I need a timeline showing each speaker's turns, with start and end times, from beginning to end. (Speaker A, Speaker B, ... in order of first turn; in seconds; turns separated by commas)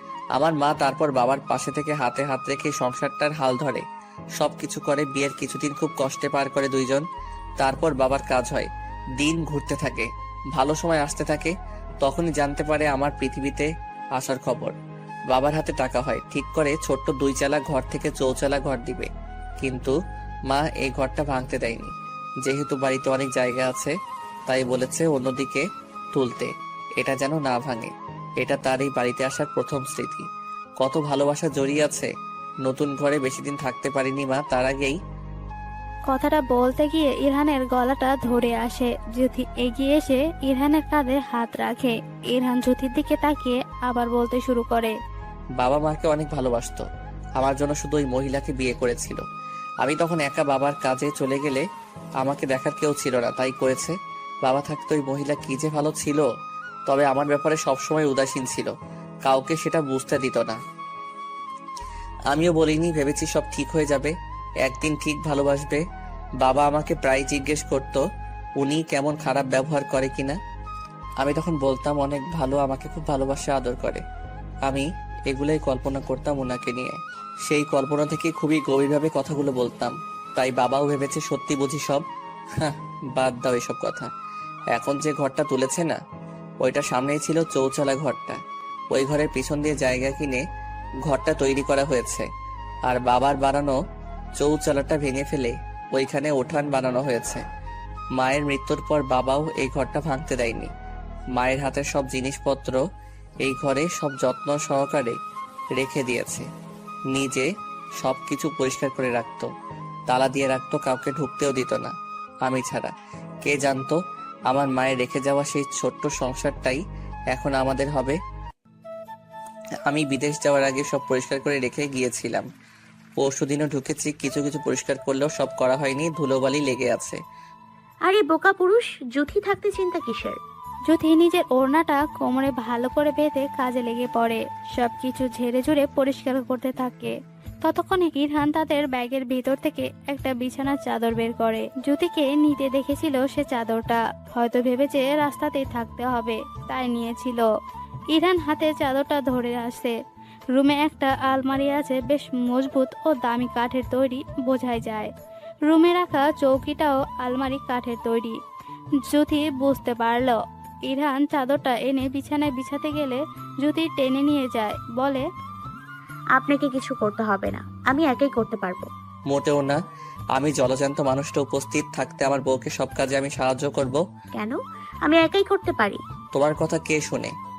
Speaker A: 0.3-3.9, Speaker A: 4.4-7.0, Speaker A: 7.6-14.8, Speaker A: 15.3-19.1, Speaker A: 19.6-20.0, Speaker A: 20.5-23.9, Speaker A: 24.5-30.3, Speaker A: 30.8-32.1, Speaker A: 32.6-35.0, Speaker B: 36.1-45.0, Speaker A: 45.6-46.8, Speaker A: 47.4-49.2, Speaker A: 49.8-51.6, Speaker A: 52.2-56.2, Speaker A: 56.9-60.6, Speaker A: 62.3-65.8, Speaker A: 66.4-68.0, Speaker A: 68.6-70.4, Speaker A: 71.2-74.0, Speaker A: 74.7-82.0, Speaker A: 82.6-84.1, Speaker A: 84.7-86.0, Speaker A: 86.6-88.4, Speaker A: 88.9-90.4, Speaker A: 91.1-92.3, Speaker A: 92.9-93.8, Speaker A: 94.4-97.4, Speaker A: 98.2-100.7, Speaker A: 101.3-102.8, Speaker A: 103.4-105.2, Speaker A: 105.8-106.5, Speaker A: 107.1-107.5, Speaker A: 108.0-109.5, Speaker A: 110.1-111.9, Speaker A: 112.5-112.9, Speaker A: 113.5-114.0, Speaker A: 114.5-116.8, Speaker A: 117.3-118.2, Speaker A: 119.9-122.5, Speaker A: 123.2-127.2, Speaker C: 128.1-130.4, Speaker B: 130.9-147.5, Speaker B: 148.1-149.9, Speaker B: 150.5-155.1, Speaker B: 155.7-158.4, Speaker B: 159.1-165.3, Speaker C: 166.4-168.9, Speaker A: 169.3-169.8, Speaker A: 170.3-174.0, Speaker C: 174.4-176.0, Speaker A: 176.3-177.3